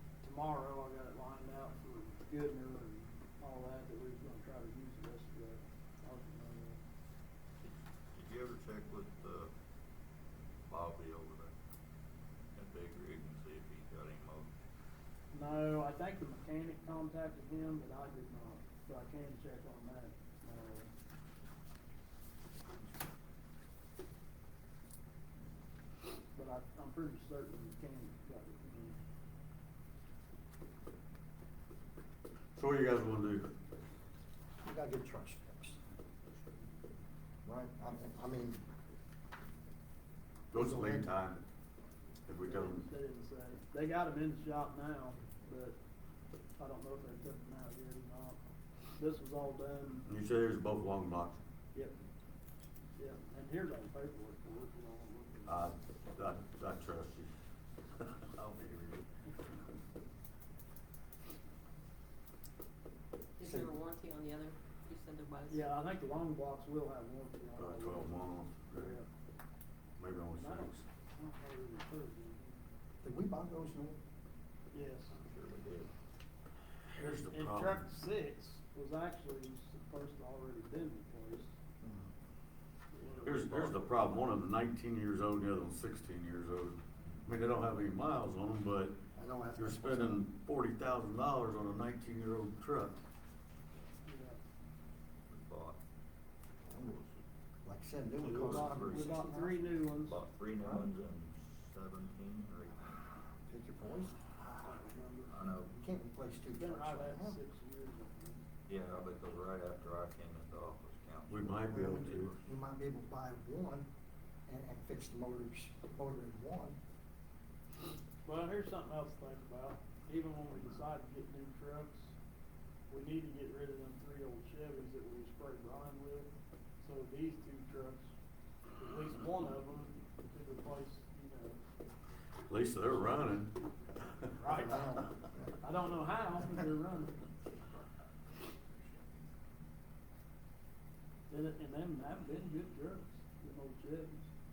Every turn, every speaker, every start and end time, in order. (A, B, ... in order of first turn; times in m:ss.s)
0:00.2-0:06.8 A
0:07.6-0:09.5 B
0:10.7-0:11.5 B
0:12.6-0:14.5 B
0:15.3-0:20.9 A
0:26.3-0:29.0 A
0:32.6-0:33.5 C
0:34.6-0:35.8 D
0:37.4-0:38.6 D
0:40.5-0:41.4 C
0:40.5-0:41.1 D
0:42.3-0:42.9 C
0:42.4-0:45.8 A
0:46.6-0:48.4 A
0:49.0-0:50.1 A
0:50.1-0:51.4 C
0:53.0-0:55.7 A
0:55.5-0:57.3 C
0:58.0-0:58.8 C
0:58.3-0:59.0 B
1:03.4-1:05.6 E
1:03.4-1:03.8 D
1:05.5-1:09.1 A
1:07.6-1:09.0 C
1:10.0-1:10.8 C
1:10.3-1:12.6 A
1:13.0-1:14.0 D
1:14.7-1:15.2 A
1:15.1-1:15.9 B
1:17.0-1:17.9 C
1:17.0-1:21.5 A
1:21.8-1:22.1 D
1:22.9-1:24.1 A
1:23.2-1:29.0 C
1:29.2-1:30.2 D
1:29.6-1:33.0 C
1:34.0-1:34.4 A
1:35.3-1:35.8 B
1:36.6-1:37.0 D
1:36.9-1:37.2 B
1:37.6-1:39.8 D
1:38.2-1:39.3 B
1:38.2-1:40.2 A
1:40.0-1:43.0 B
1:40.6-1:40.9 D
1:43.5-1:44.9 D
1:44.6-1:45.3 A
1:45.3-1:45.7 B
1:45.6-1:47.4 D
1:46.6-1:48.4 A
1:48.7-1:52.5 B
1:51.3-1:52.3 C
1:51.7-1:53.9 D
1:54.5-1:56.8 D
1:58.2-2:02.1 A
2:02.9-2:08.1 A
2:08.8-2:11.6 A
2:12.5-2:15.0 C
2:14.4-2:15.0 A
2:14.6-2:15.5 D
2:15.6-2:17.2 A
2:21.3-2:24.3 A